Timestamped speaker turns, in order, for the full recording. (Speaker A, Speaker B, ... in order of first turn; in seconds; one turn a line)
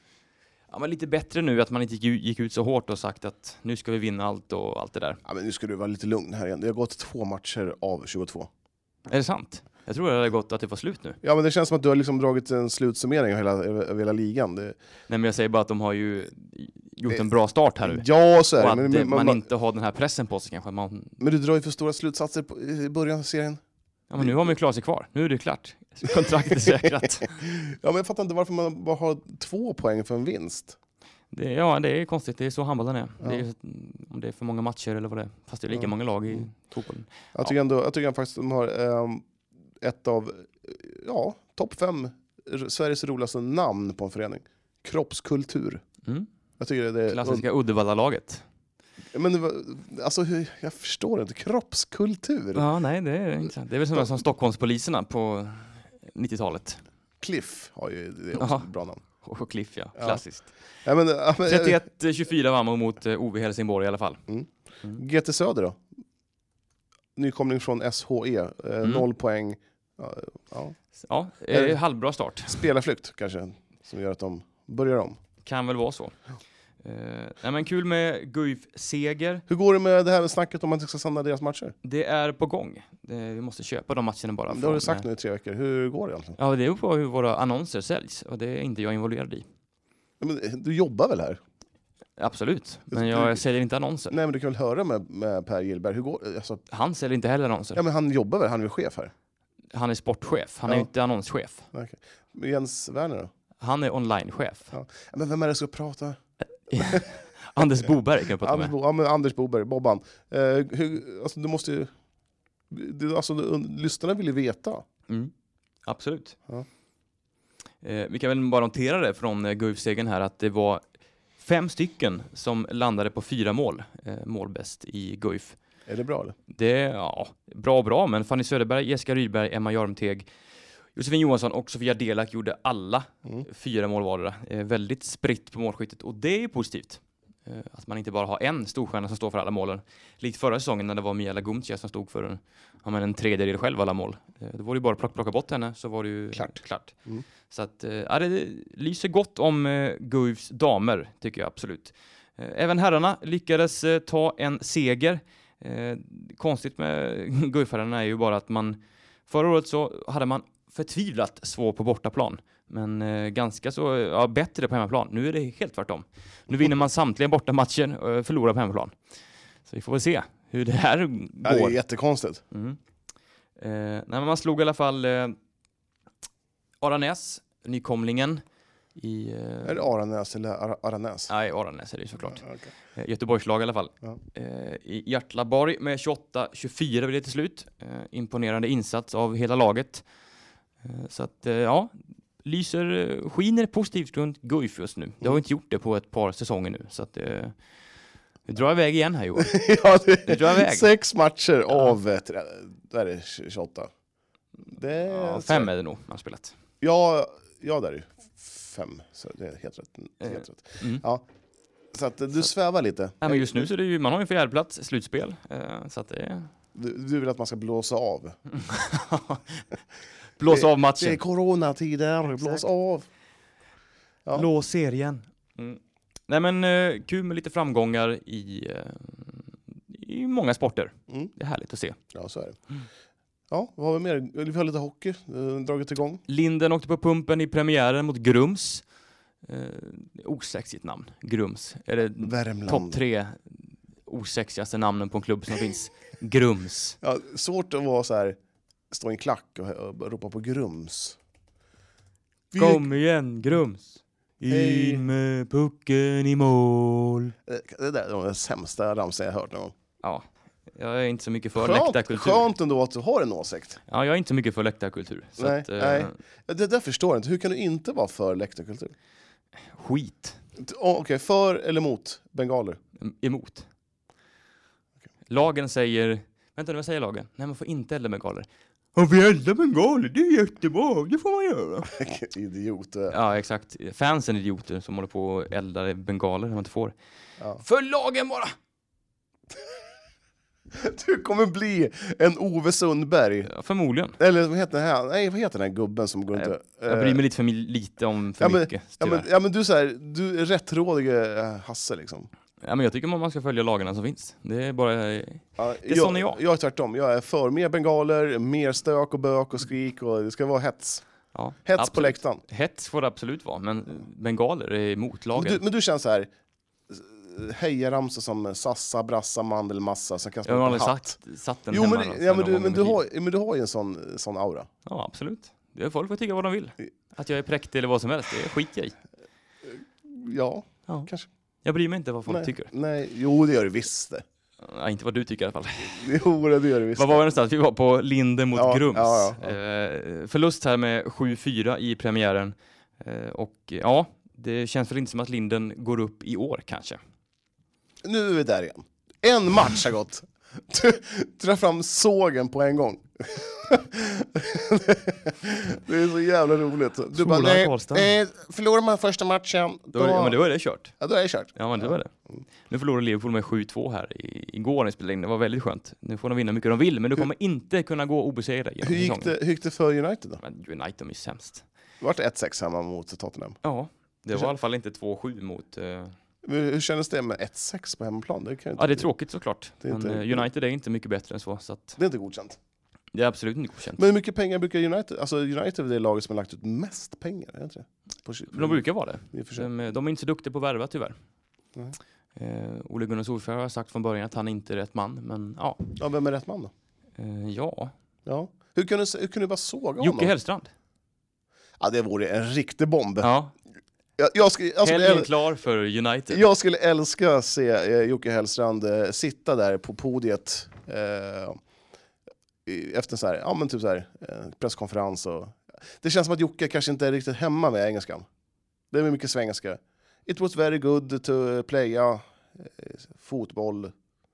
Speaker A: 0.7-5.2
Speaker B: 5.2-8.5
Speaker A: 9.1-11.2
Speaker B: 11.2-14.8
Speaker A: 15.1-21.2
Speaker B: 17.8-19.4
Speaker B: 21.2-23.6
Speaker A: 24.1-27.4
Speaker B: 24.2-24.5
Speaker B: 26.5-30.8
Speaker A: 31.3-37.5
Speaker B: 35.7-39.3
Speaker B: 39.8-45.8
Speaker B: 46.6-47.5
Speaker A: 47.1-48.5
Speaker B: 49.1-52.6
Speaker A: 52.5-56.8
Speaker B: 57.2-59.2
Speaker A: 58.4-60.7
Speaker B: 60.0-61.8
Speaker A: 61.5-64.2
Speaker B: 64.3-65.8
Speaker B: 67.2-70.8
Speaker A: 71.0-72.6
Speaker B: 71.5-71.8
Speaker B: 72.4-75.2
Speaker A: 75.4-76.2
Speaker A: 76.8-79.4
Speaker B: 79.5-81.8
Speaker A: 81.8-85.0
Speaker B: 84.5-86.4
Speaker A: 86.4-89.5
Speaker B: 90.2-91.4
Speaker A: 92.2-94.2
Speaker B: 92.9-93.4
Speaker B: 94.1-96.6
Speaker A: 96.7-97.8
Speaker B: 97.8-99.1
Speaker A: 99.7-101.7
Speaker B: 101.7-103.3
Speaker A: 103.6-104.7
Speaker B: 104.7-106.2
Speaker A: 106.7-108.7
Speaker B: 106.7-107.0
Speaker B: 107.6-107.9
Speaker B: 108.4-111.9
Speaker B: 112.7-114.8
Speaker A: 115.8-116.4
Speaker A: 117.8-125.6
Speaker B: 125.9-126.4
Speaker A: 126.5-130.3
Speaker A: 130.9-171.8
Speaker B: 146.3-147.2
Speaker B: 171.4-172.4
Speaker A: 172.5-172.8
Speaker A: 173.6-175.4
Speaker A: 176.8-179.9
Speaker B: 179.6-181.3
Speaker A: 181.3-190.1
Speaker B: 182.4-182.7
Speaker A: 190.8-200.9
Speaker B: 199.4-203.9
Speaker B: 204.6-205.7
Speaker A: 205.1-206.6
Speaker B: 206.8-211.3
Speaker A: 210.2-211.0
Speaker B: 211.9-213.7
Speaker A: 213.2-216.5
Speaker B: 216.8-218.4
Speaker A: 218.6-219.7
Speaker A: 220.4-221.2
Speaker B: 220.5-223.1
Speaker A: 224.3-232.0
Speaker B: 232.1-232.8
Speaker B: 233.5-236.2
Speaker A: 236.3-238.9
Speaker A: 239.4-243.4
Speaker B: 242.2-243.0
Speaker A: 244.1-247.0
Speaker B: 247.0-248.4
Speaker B: 248.9-251.2
Speaker B: 252.5-252.9
Speaker A: 252.6-257.3
Speaker B: 254.5-255.0
Speaker B: 257.5-259.8
Speaker A: 260.0-262.5
Speaker B: 261.6-263.8
Speaker A: 263.9-266.1
Speaker B: 265.4-268.9
Speaker A: 269.7-270.4
Speaker B: 270.6-272.8
Speaker A: 273.0-273.7
Speaker A: 275.3-281.9
Speaker B: 281.9-283.2
Speaker A: 283.1-287.0
Speaker A: 287.6-288.6
Speaker B: 290.7-293.5
Speaker A: 293.5-294.2
Speaker B: 294.2-297.2
Speaker A: 296.3-299.3
Speaker B: 298.4-302.3
Speaker A: 302.6-306.4
Speaker B: 305.6-312.4
Speaker A: 311.3-315.6
Speaker B: 315.3-316.3
Speaker B: 316.9-324.7
Speaker A: 320.4-323.0
Speaker A: 324.9-329.0
Speaker B: 329.7-331.3
Speaker A: 331.6-332.7
Speaker B: 332.3-334.2
Speaker A: 334.6-336.1
Speaker B: 335.9-337.2
Speaker A: 337.0-347.0
Speaker B: 338.5-339.6
Speaker B: 348.0-362.4
Speaker A: 357.1-358.1
Speaker A: 359.9-361.0
Speaker A: 361.5-369.4
Speaker B: 368.8-370.4
Speaker A: 370.4-371.6
Speaker B: 372.0-373.6
Speaker A: 373.6-376.2
Speaker B: 376.4-379.2
Speaker A: 378.8-382.0
Speaker B: 379.8-380.5
Speaker B: 382.0-382.6
Speaker A: 383.1-384.0
Speaker B: 384.0-389.7
Speaker A: 388.5-391.2
Speaker A: 392.4-395.9
Speaker B: 396.0-396.7
Speaker A: 397.2-397.9
Speaker B: 398.3-400.3
Speaker A: 400.0-400.7
Speaker B: 401.8-403.3
Speaker A: 403.2-403.5
Speaker B: 404.2-405.3
Speaker A: 404.8-406.4
Speaker B: 406.3-411.6
Speaker B: 412.6-418.3
Speaker B: 418.9-423.9